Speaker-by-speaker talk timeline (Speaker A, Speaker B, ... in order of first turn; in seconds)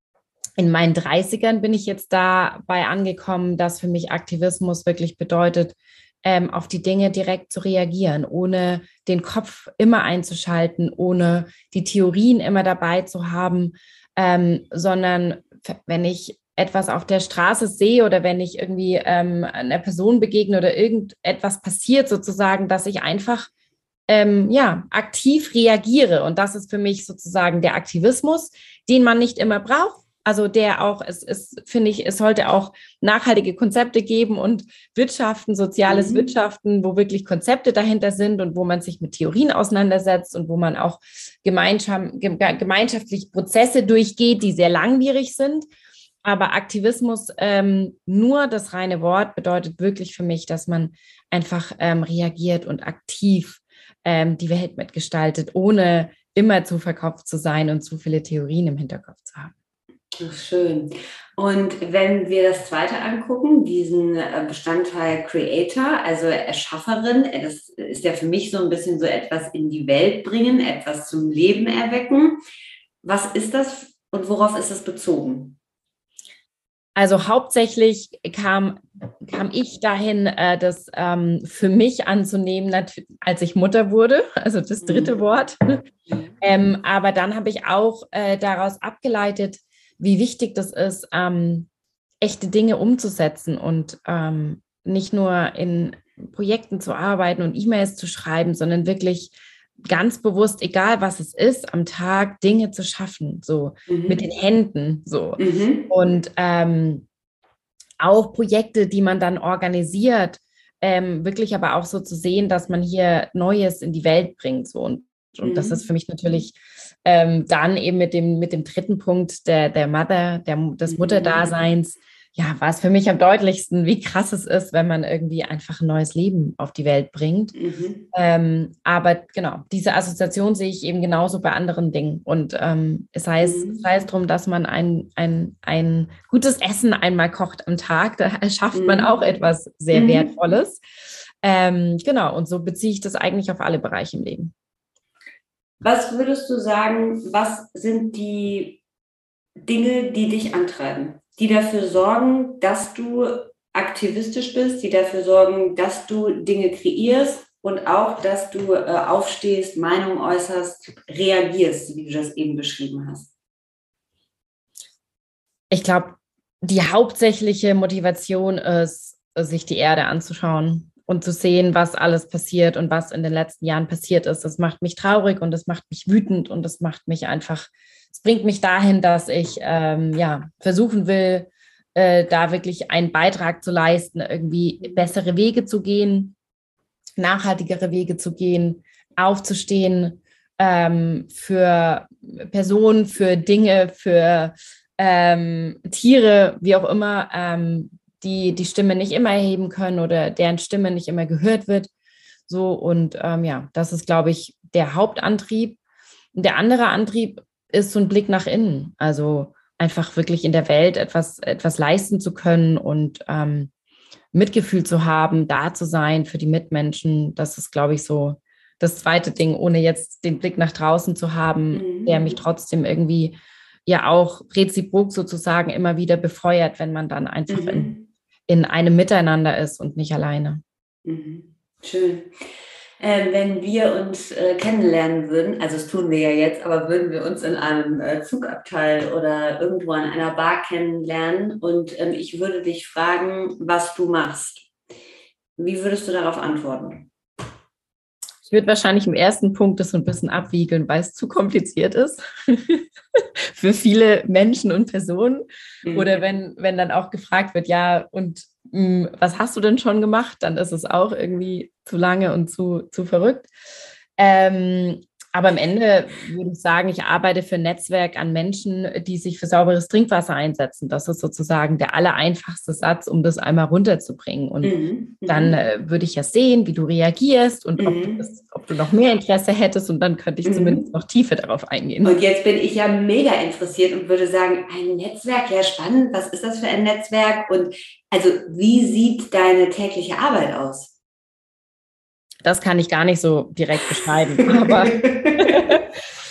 Speaker A: 0.6-23.5, 24.1-45.7, 46.2-59.5, 77.0-85.8, 86.4-91.7, 92.2-99.3, 99.8-107.1, 108.0-127.5, 128.1-140.8, 141.4-144.5, 165.7-186.3, 187.2-201.9, 202.5-205.8, 206.3-213.7, 214.3-223.4, 223.9-227.9, 228.5-230.6, 248.5-263.5, 264.2-282.2, 292.4-295.9
Speaker B: 35.9-36.3, 60.2-72.4, 73.0-75.6, 84.8-85.2, 86.1-86.4, 103.9-104.2, 105.4-105.9, 115.4-115.8, 120.9-121.5, 127.5-128.1, 133.4-133.8, 138.7-139.1, 139.9-140.3, 145.8-148.8, 149.7-163.3, 221.7-222.4, 227.5-228.1, 231.1-232.3, 233.0-244.7, 245.6-247.1, 255.8-256.1, 274.6-275.6, 277.8-278.3, 280.4-280.9, 282.0-290.9, 294.4-295.8